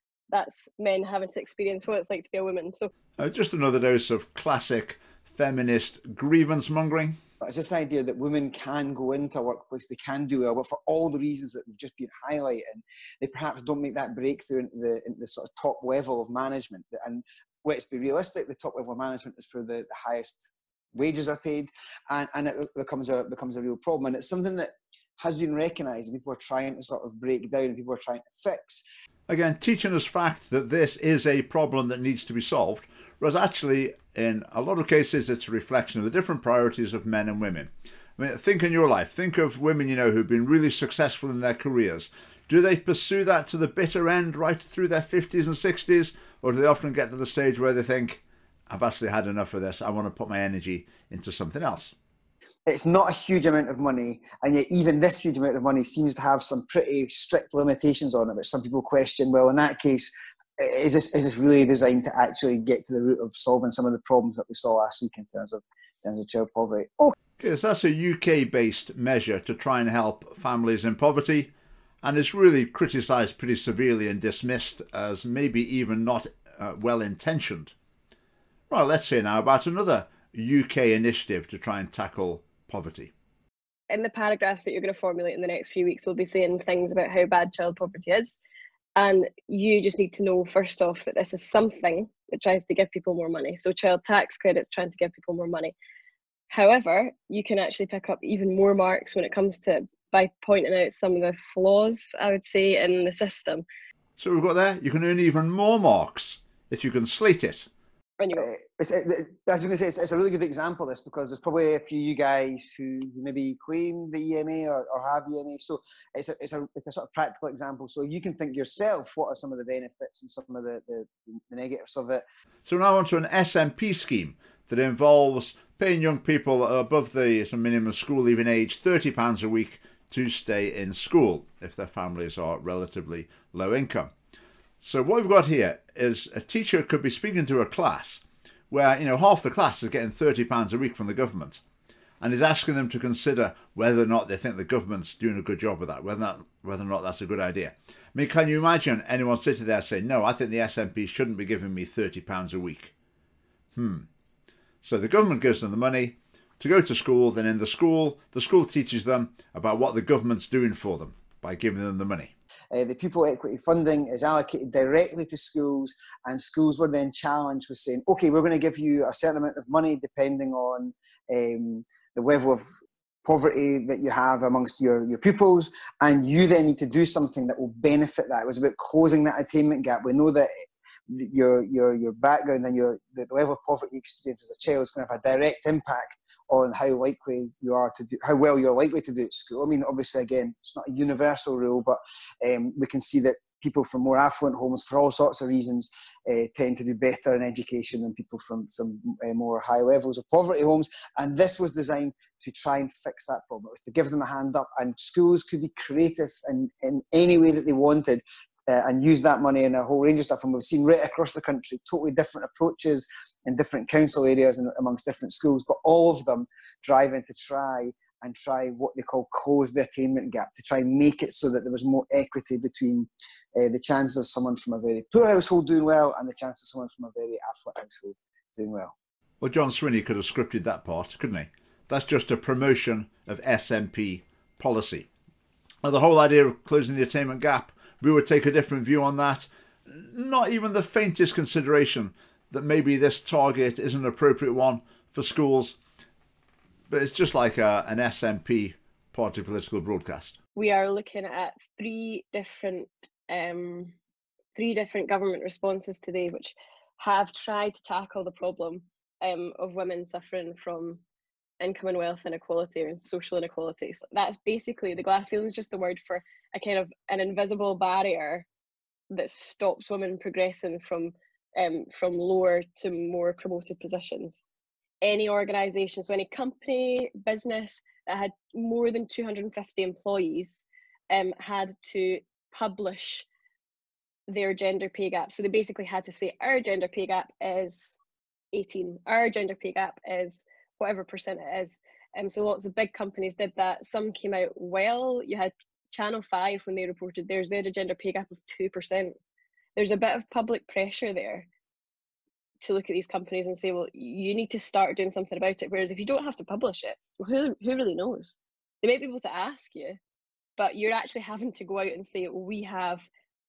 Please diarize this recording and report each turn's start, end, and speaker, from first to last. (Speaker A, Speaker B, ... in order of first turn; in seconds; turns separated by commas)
Speaker A: 0.3-2.9, Speaker B: 3.2-7.2, Speaker C: 7.4-28.8, Speaker B: 29.3-51.9, Speaker C: 52.7-67.1, Speaker B: 67.4-71.5, Speaker B: 72.0-77.7, Speaker B: 78.7-83.1, Speaker A: 83.9-88.4, Speaker A: 89.0-95.7, Speaker A: 96.5-103.7, Speaker B: 104.2-107.7, Speaker A: 108.2-108.5, Speaker C: 108.3-122.2, Speaker B: 122.7-134.1, Speaker B: 134.8-141.6, Speaker B: 142.2-152.9, Speaker B: 153.8-154.1, Speaker B: 154.8-162.3, Speaker C: 162.7-172.7, Speaker C: 173.2-180.5, Speaker C: 181.1-228.9, Speaker B: 229.4-235.1, Speaker B: 235.8-245.8, Speaker B: 246.9-250.4, Speaker A: 250.6-253.9, Speaker A: 254.6-261.0, Speaker A: 261.6-268.5, Speaker A: 269.1-274.4, Speaker A: 275.0-283.3, Speaker A: 284.3-288.0, Speaker A: 288.5-299.1, Speaker A: 299.8-301.5, Speaker A: 302.6-310.0, Speaker A: 310.6-313.1